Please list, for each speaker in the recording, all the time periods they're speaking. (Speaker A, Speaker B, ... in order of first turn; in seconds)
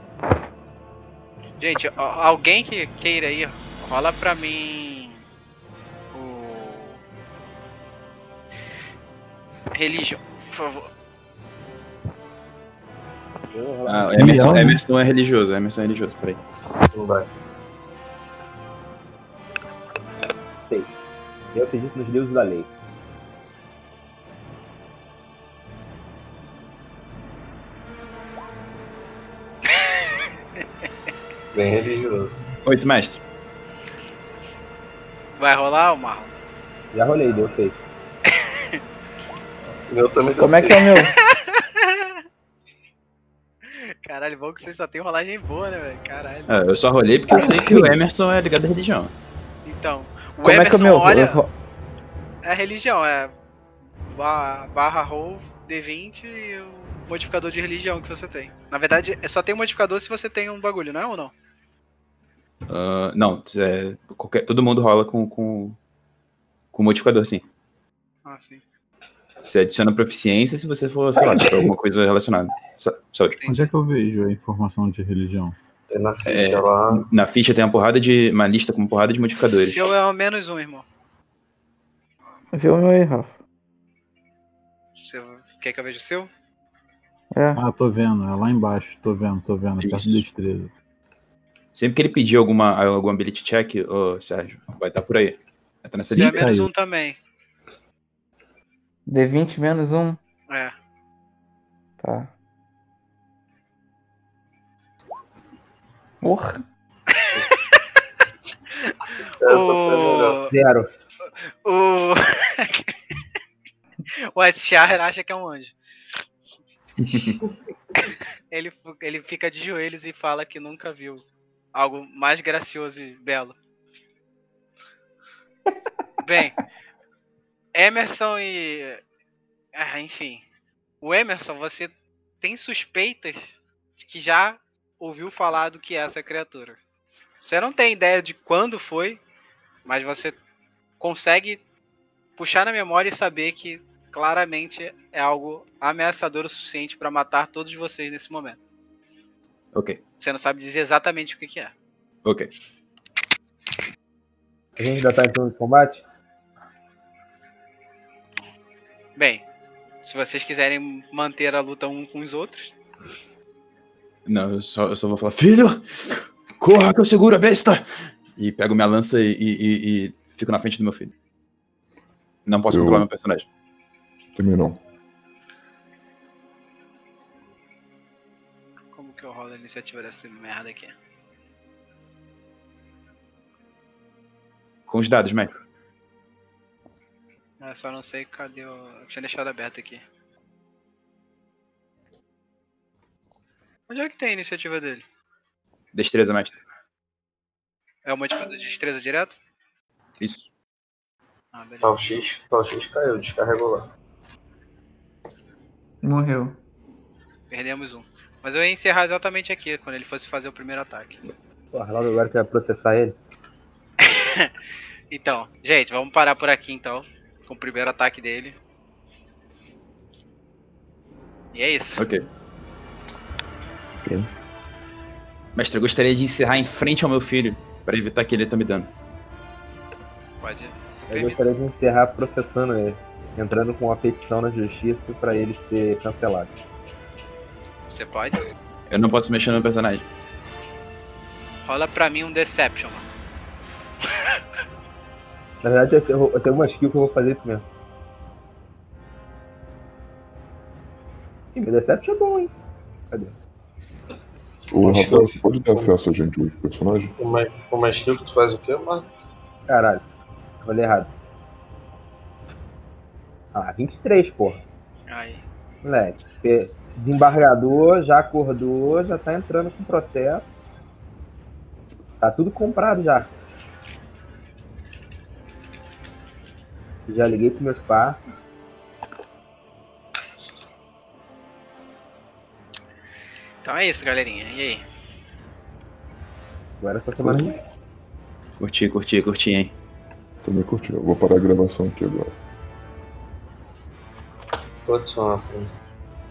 Speaker A: 1.6-5.2, 6.1-7.0, 9.7-10.9, 29.8-30.1, 35.4-36.3, 38.3-38.8, 41.3-42.1, 43.7-46.5, 49.6-51.4, 52.4-53.3, 54.1-61.3, 68.2-68.6, 73.4-73.7, 79.7-80.8, 85.0-86.3, 96.2-97.2, 107.2-107.4, 109.5-110.5, 111.6-113.0, 114.3-115.8, 118.5-121.2, 121.8-123.5, 126.2-126.6, 127.8-129.0, 129.8-130.4, 131.0-136.8, 137.4-139.2, 139.9-140.4, 141.0-141.6, 142.4-148.6, 150.2-151.7, 159.2-159.4, 160.0-162.7, 178.9-180.9, 187.6-190.0, 193.9-195.0, 198.1-199.4, 201.5-201.9, 207.5-211.2, 214.0-214.5, 215.1-218.6, 221.5-222.0, 230.4-231.4, 237.9-238.4, 241.7-243.0, 244.1-244.4, 265.1-265.4, 283.6-284.8
Speaker B: 13.5-14.5, 21.5-22.7, 36.9-37.8, 110.5-110.9, 154.8-156.0, 211.7-213.2, 231.1-236.5, 245.6-247.7, 251.6-252.5, 259.7-260.0, 260.6-261.1, 263.5-264.6, 265.8-270.5, 272.2-273.3, 277.1-278.2, 286.8-287.5
Speaker C: 13.9-16.4, 32.6-33.2, 46.5-49.1, 62.7-65.8, 66.7-67.4, 69.4-73.4, 76.2-79.9, 89.8-90.2, 91.8-96.5, 117.0-117.4, 149.7-150.0, 164.3-167.8, 168.3-171.1, 172.5-173.5, 184.9-185.6, 195.9-196.6, 200.2-200.5, 222.0-222.2, 225.6-228.9, 238.9-240.1, 288.6-289.7
Speaker D: 14.2-14.8, 73.5-75.6, 87.5-90.7, 96.1-96.7
Speaker E: 16.9-17.3, 31.5-32.4, 39.9-40.9, 75.9-77.0, 109.4-110.4, 201.8-203.8, 254.8-255.9, 257.2-259.1, 294.9-295.7
Speaker F: 40.4-41.1, 47.3-47.9, 50.4-51.5, 82.5-83.4, 87.3-87.6, 99.1-100.2, 102.0-102.3, 106.2-106.6, 206.0-206.6
Speaker G: 172.7-173.1, 174.4-174.8, 254.7-257.1, 290.4-292.3